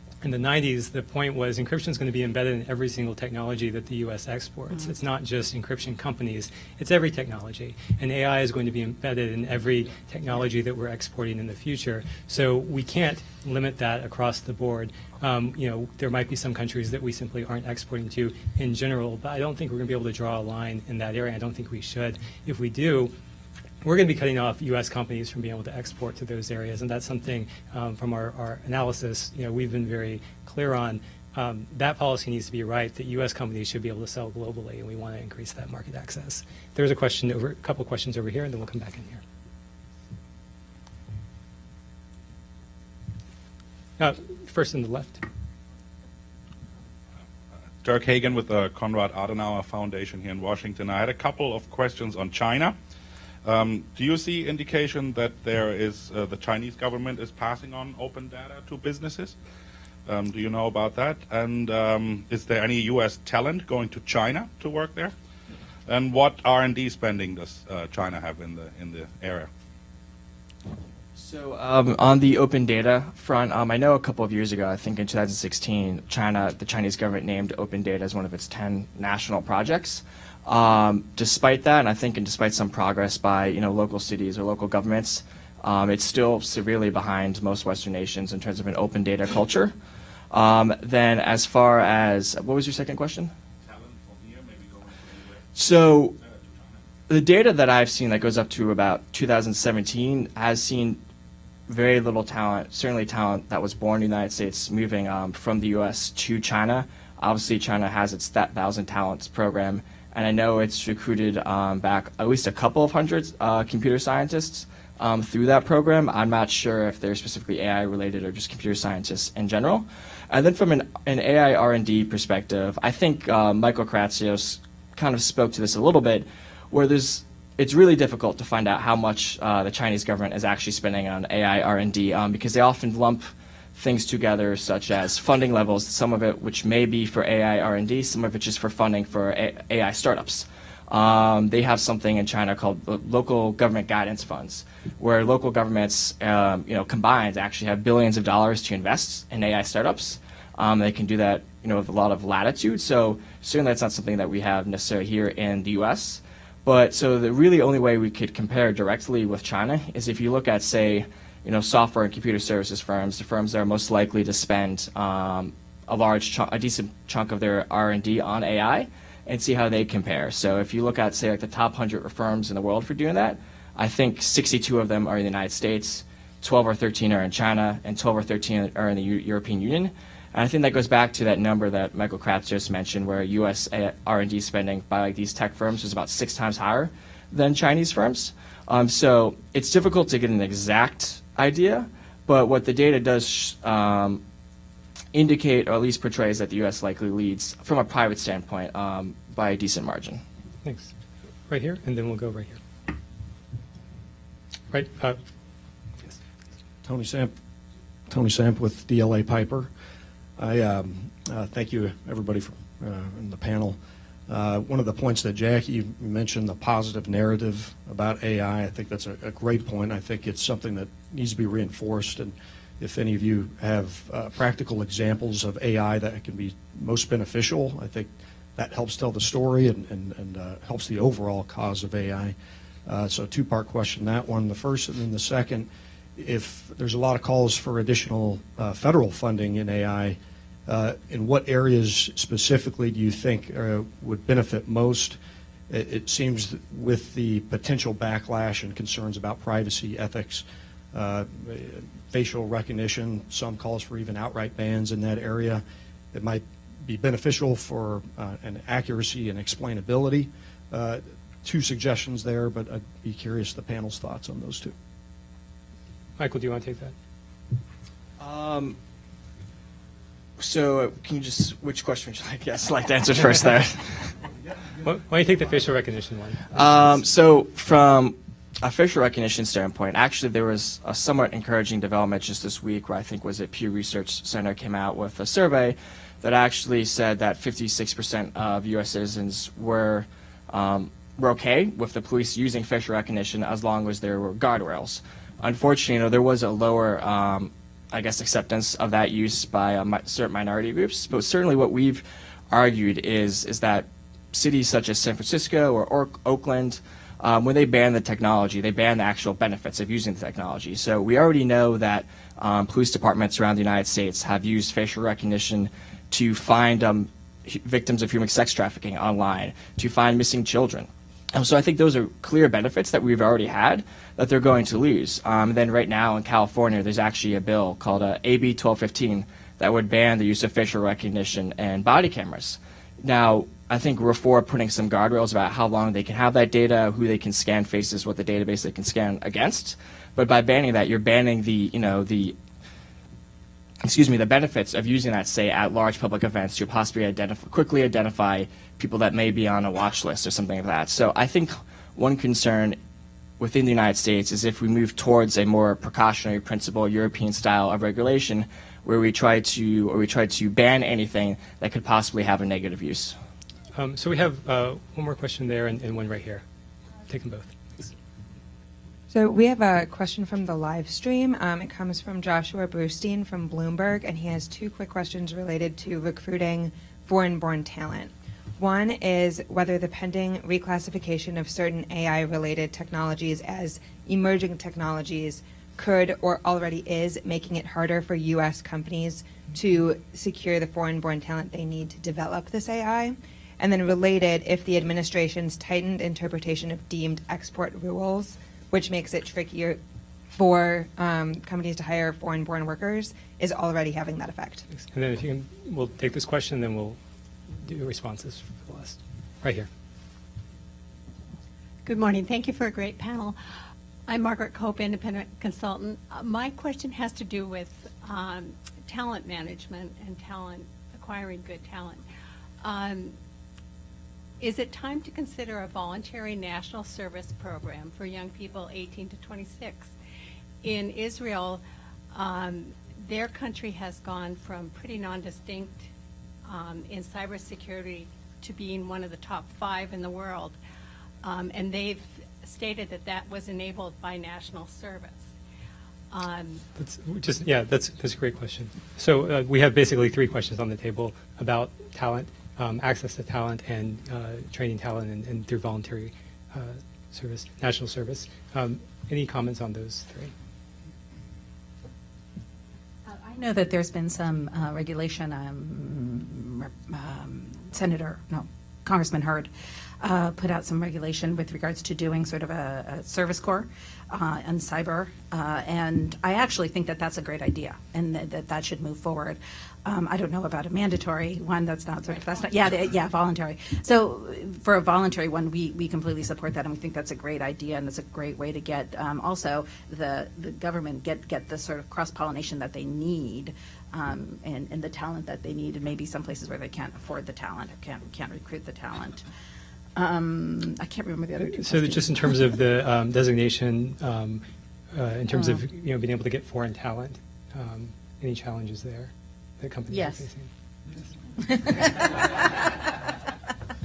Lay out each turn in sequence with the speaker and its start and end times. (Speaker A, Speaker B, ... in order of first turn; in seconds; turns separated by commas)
Speaker A: 0.2-23.1, Speaker A: 23.8-39.2, Speaker A: 44.0-45.2, Speaker B: 47.8-52.8, Speaker B: 53.5-59.4, Speaker B: 60.1-65.1, Speaker B: 65.9-69.5, Speaker C: 71.2-89.7, Speaker C: 90.3-93.3, Speaker B: 93.7-95.4, Speaker C: 95.5-96.2, Speaker C: 97.1-101.0, Speaker C: 101.7-194.2, Speaker C: 195.1-200.2, Speaker A: 200.6-200.9, Speaker A: 201.5-202.6, Speaker A: 204.7-205.2, Speaker D: 206.8-207.3, Speaker D: 208.1-209.7, Speaker D: 210.4-232.3, Speaker D: 232.9-245.2, Speaker D: 245.7-264.7, Speaker A: 266.2-266.9, Speaker C: 268.2-268.8, Speaker C: 270.4-273.9, Speaker A: 274.8-276.6, Speaker C: 276.5-342.4, Speaker C: 343.9-352.8, Speaker C: 353.4-363.2, Speaker A: 363.8-366.4, Speaker A: 367.1-367.9, Speaker E: 369.1-399.8, Speaker E: 400.4-404.6, Speaker A: 404.8-407.0, Speaker A: 407.6-409.7, Speaker F: 411.8-413.4, Speaker F: 414.1-422.0, Speaker F: 422.6-423.1, Speaker F: 424.4-429.9, Speaker F: 430.6-431.6, Speaker F: 432.1-435.9, Speaker F: 436.5-440.6, Speaker F: 441.2-445.3, Speaker F: 446.1-446.6, Speaker A: 446.8-460.3, Speaker G: 463.1-469.5, Speaker G: 470.0-499.2, Speaker G: 500.0-502.4, Speaker A: 501.6-510.5, Speaker G: 505.3-505.6, Speaker G: 509.9-510.3, Speaker G: 511.4-513.0